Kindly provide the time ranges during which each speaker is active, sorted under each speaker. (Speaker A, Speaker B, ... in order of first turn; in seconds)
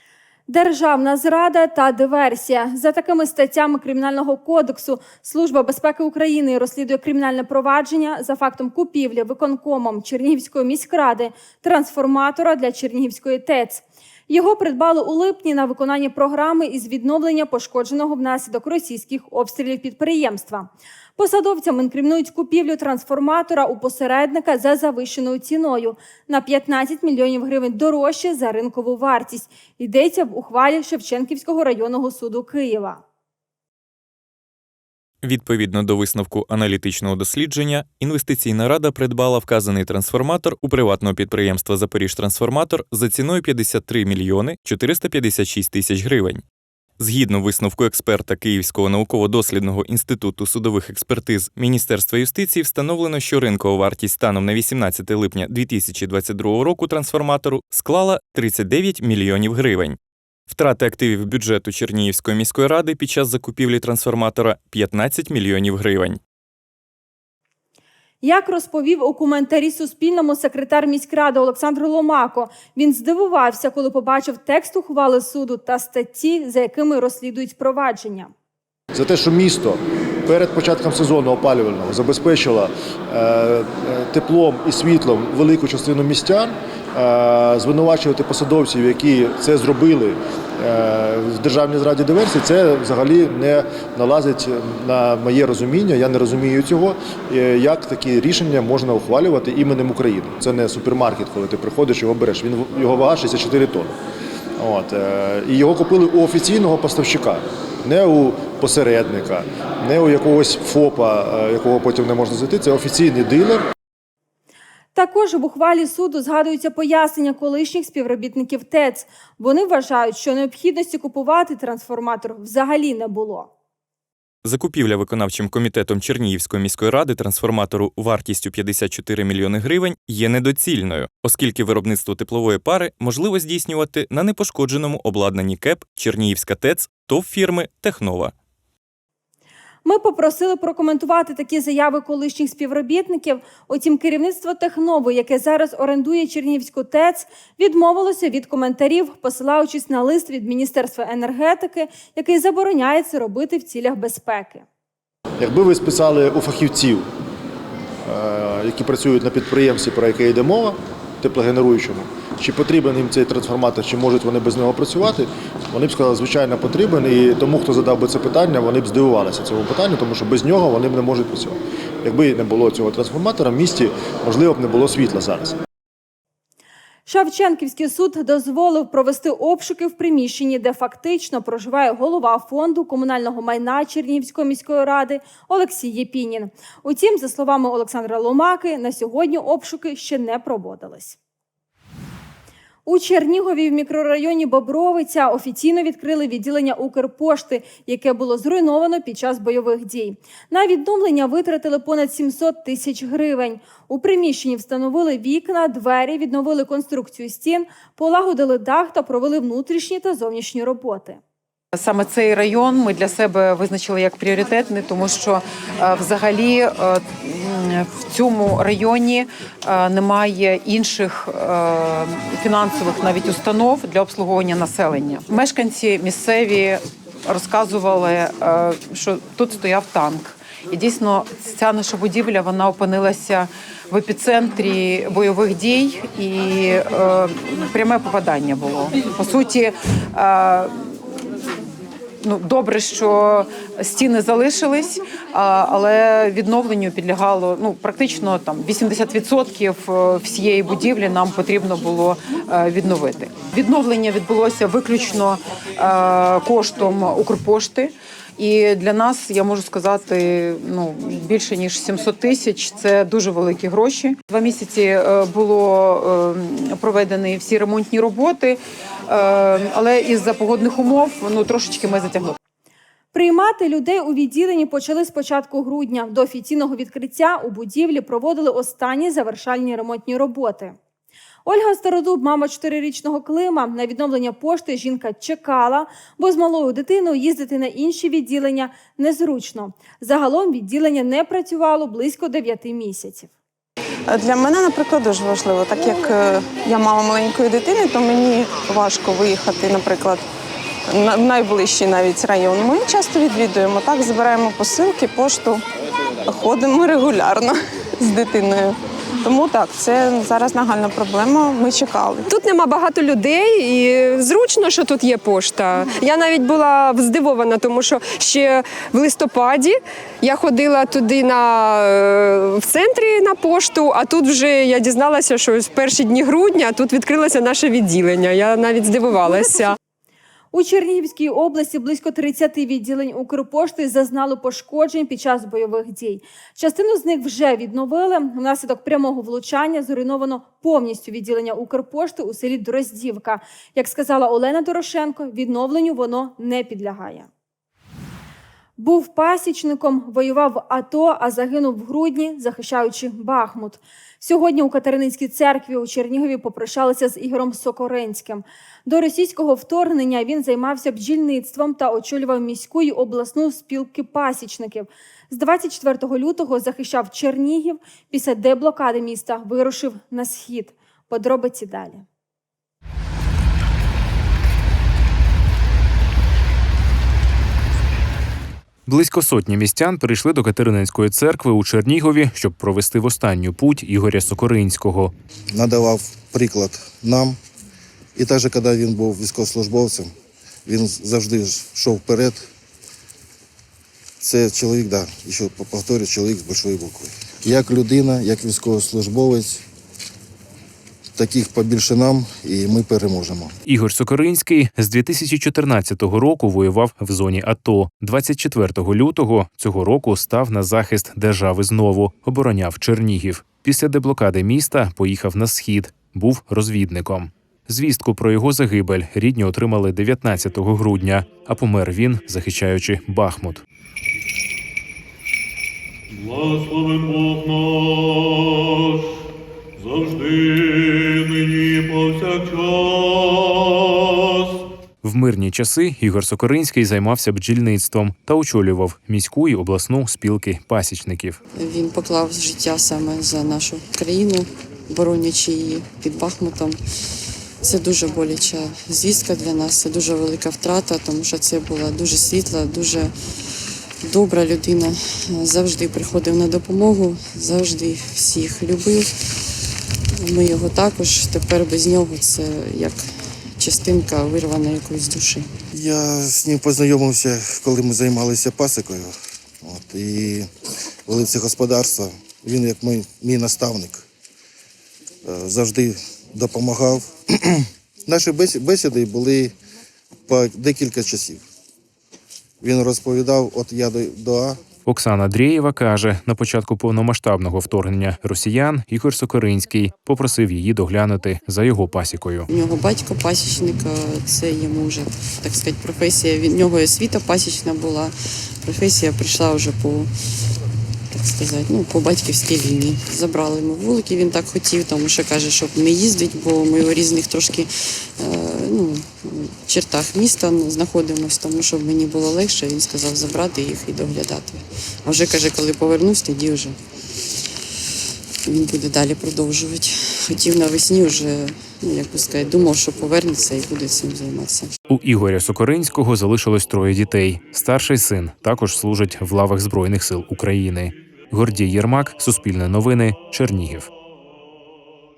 Speaker A: 0.5-33.0, 68.2-78.3, 115.0-123.5, 139.8-154.7, 177.1-191.2, 192.8-211.2, 273.1-280.8, 281.4-293.3, 330.5-347.3, 348.8-372.0
Speaker B: 35.2-46.4, 47.0-60.0, 60.5-66.2, 124.4-138.3
Speaker C: 78.9-104.0, 104.6-113.6, 155.4-157.1, 158.0-175.6
Speaker D: 211.7-240.8, 242.2-272.4
Speaker E: 294.8-295.1, 295.8-296.8, 297.8-298.8, 301.9-305.5, 306.3-307.4, 308.0-308.6, 309.3-310.3, 311.0-312.0
Speaker F: 312.2-329.8
Speaker G: 378.9-385.1, 403.7-423.6, 435.0-441.4, 484.9-492.5, 524.9-533.9
Speaker H: 385.5-387.4, 388.2-390.1, 390.7-392.4, 394.2-399.6, 401.2-403.5, 465.7-470.5, 471.1-474.0, 475.3-479.6, 480.3-481.4, 482.6-484.6
Speaker I: 426.4-427.4, 429.8-430.3, 432.4-432.8
Speaker J: 441.5-446.8, 447.6-453.1, 454.0-459.1, 460.2-463.0, 463.6-465.5, 492.5-498.1, 498.6-500.1, 501.1-516.8, 518.5-524.7